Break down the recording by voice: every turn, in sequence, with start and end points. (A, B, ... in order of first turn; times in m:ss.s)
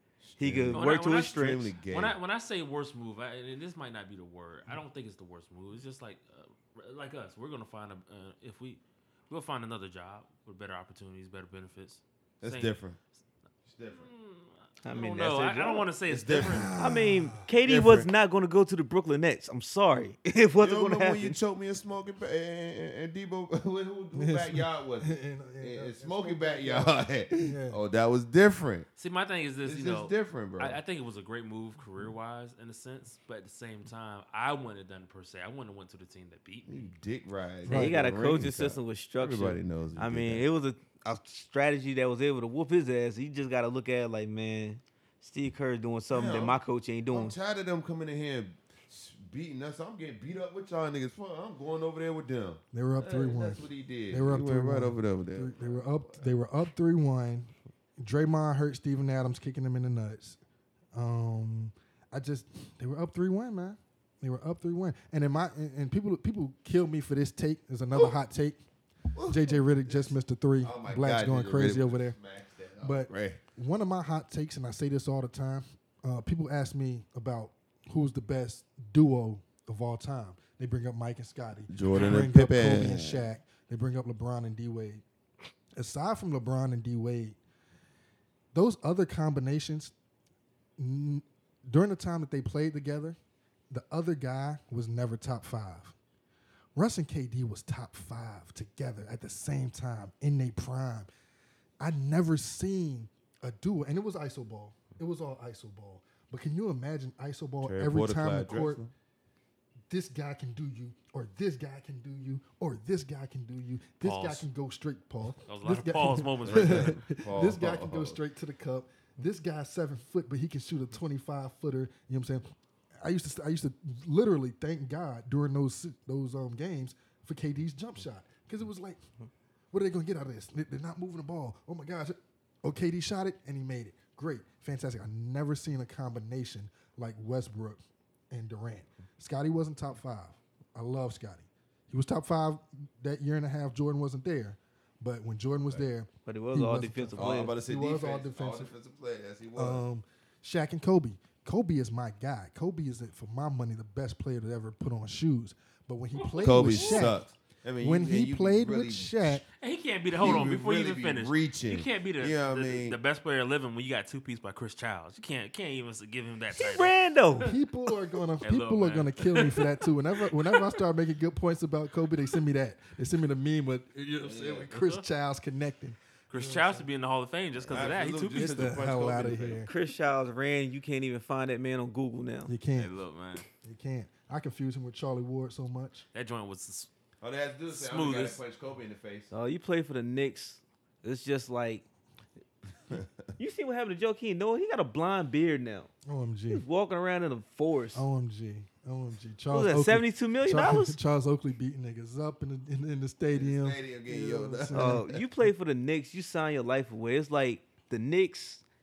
0:00.2-0:02.2 A
0:00.4-0:01.7 B
0:00.7-0:12.8 C
0:12.4-0:13.0 A
0:13.7-0:14.1 A
0:13.9-0:16.8 C
0:14.8-0:15.9 B
0:16.1-0:16.8 A
0:16.4-0:17.5 D
0:16.8-0:21.4 B
0:17.6-0:18.1 A
0:20.6-0:28.9 A
0:24.1-0:27.8 D
0:29.0-0:36.9 C
0:29.6-0:30.8 A
0:36.7-0:40.5 A
0:37.6-0:38.0 D
0:37.7-0:47.4 B
0:46.1-0:56.3 A
0:52.7-1:00.4 D
1:00.9-1:08.6 D
1:09.1-1:13.4 A
1:09.2-1:12.2 D
1:12.8-1:25.0 D
1:21.7-1:23.2 A
1:25.8-1:27.4 D
1:28.5-1:29.9 D
1:30.8-1:33.2 D
1:33.7-1:36.0 D
1:36.8-1:41.1 D
1:41.8-1:48.8 D
1:47.6-1:48.9 A
1:49.9-2:09.0 D
1:54.0-1:54.5 C
1:55.4-1:57.0 C
1:56.5-1:58.2 A
2:09.7-2:28.7 D
2:26.3-2:27.5 B
2:27.2-2:29.8 A
2:29.6-2:37.2 D
2:36.2-2:37.1 C
2:36.4-2:39.4 A
2:37.8-2:39.4 D
2:39.6-2:47.0 C
2:40.2-2:43.0 A
2:46.5-2:47.5 B
2:47.4-2:56.9 D
2:48.4-2:49.7 C
2:50.4-2:50.8 C
2:54.2-2:54.8 A
2:54.7-2:55.0 C
2:56.3-2:58.7 C
2:57.7-2:59.7 A
2:57.8-2:59.7 D
2:59.6-3:02.5 B
3:02.5-3:02.9 D
3:02.8-3:03.5 C
3:03.6-3:06.0 D
3:06.1-3:06.9 C
3:07.2-3:09.3 A
3:07.7-3:08.4 C
3:09.3-3:11.8 B
3:13.4-3:15.9 B
3:16.0-3:16.6 D
3:16.5-3:18.0 B
3:17.9-3:25.1 D
3:19.5-3:21.0 B
3:23.4-3:25.2 A
3:24.7-3:28.6 B